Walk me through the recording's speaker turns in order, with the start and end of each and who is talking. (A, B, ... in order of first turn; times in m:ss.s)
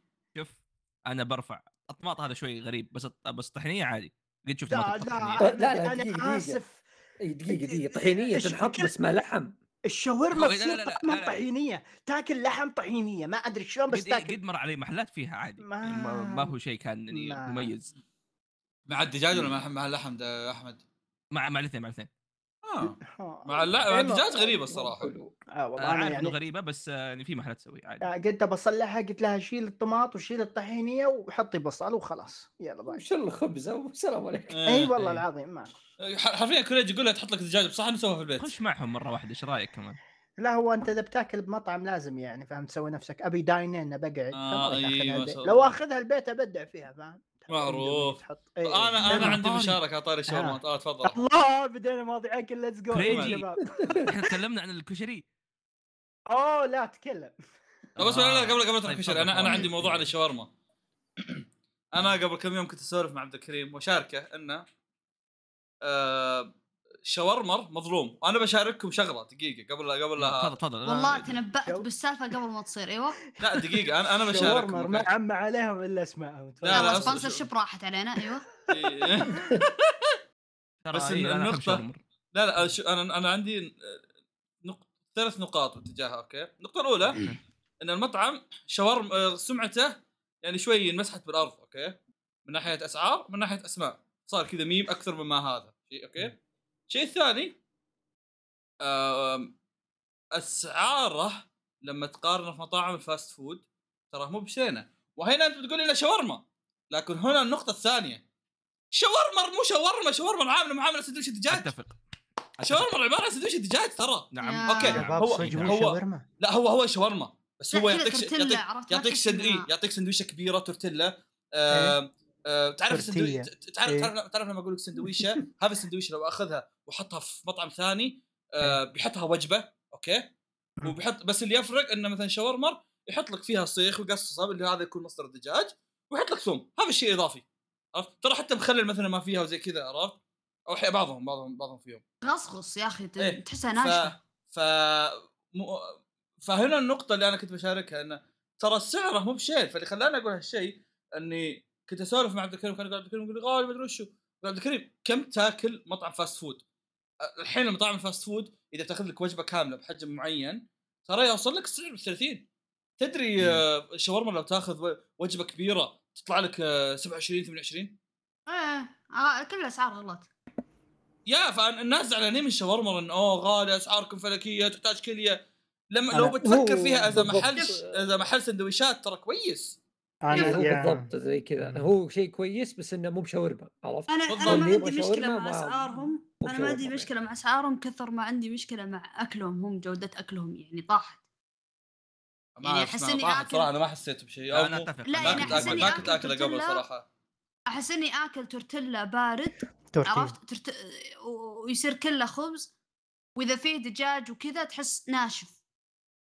0:00.4-0:05.5 A
0:04.7-0:06.8 B
0:05.4-0:06.6 C
0:07.3-0:09.5 C
0:07.5-0:08.9 B
0:09.9-0:14.4 B
0:10.3-0:11.4 A
0:13.9-0:17.9 A
0:15.6-0:16.5 B
0:17.1-0:17.7 B
0:18.9-0:20.8 D
0:21.3-0:22.1 A
0:22.6-0:25.1 D
0:23.1-0:24.3 B
0:24.3-0:25.3 C
0:25.6-0:26.4 B
0:25.8-0:28.1 A
0:28.0-0:33.0 B
0:32.9-0:34.6 C
0:34.5-0:34.9 D
0:34.7-0:35.7 B
0:35.0-0:35.2 A
0:36.0-0:38.5 D
0:38.4-0:40.0 A
0:40.4-0:49.4 B
0:44.3-0:45.8 D
0:47.5-0:51.2 D
0:49.0-0:49.8 A
0:50.3-0:54.1 B
0:52.9-0:55.2 A
0:53.0-0:53.4 D
0:56.3-0:57.3 B
0:58.0-1:00.1 A
0:58.0-1:00.5 D
1:01.2-1:04.6 D
1:05.8-1:06.5 D
1:07.1-1:10.6 D
1:10.2-1:11.4 A
1:10.8-1:13.2 E
1:13.4-1:15.1 D
1:13.8-1:17.3 B
1:16.6-1:17.5 D
1:16.7-1:18.4 E
1:18.7-1:20.2 D
1:18.7-1:19.6 B
1:20.8-1:22.0 A
1:20.9-1:21.8 D
1:22.3-1:24.0 D
1:24.6-1:27.3 D
1:27.1-1:27.4 A
1:27.8-1:36.4 D
1:36.9-1:37.6 D
1:38.8-1:39.5 D
1:40.4-1:48.2 D
1:48.9-1:51.7 D
1:51.5-1:52.0 A
1:52.6-1:52.9 A
1:52.6-2:10.2 D
1:54.3-1:55.8 A
1:54.4-1:55.0 E
1:54.9-1:56.2 B
1:57.7-1:59.7 E
2:01.7-2:02.0 B
2:02.9-2:04.1 B
2:10.8-2:17.4 D
2:18.0-2:22.0 D
2:22.2-2:24.2 E
2:23.2-2:36.6 D
2:37.2-2:42.5 D
2:43.0-2:48.0 D
2:48.5-2:50.3 E
2:51.3-2:55.4 D
2:55.9-2:59.8 D
2:56.1-2:58.0 C
3:00.2-3:01.1 B
3:00.3-3:00.7 E
3:00.3-3:07.1 C
3:04.1-3:11.2 E
3:04.3-3:04.7 D
3:12.6-3:17.0 D
3:12.6-3:13.7 E
3:14.5-3:16.1 A
3:15.0-3:16.8 E
3:17.7-3:22.7 E
3:19.9-3:20.3 B
3:23.4-3:25.6 E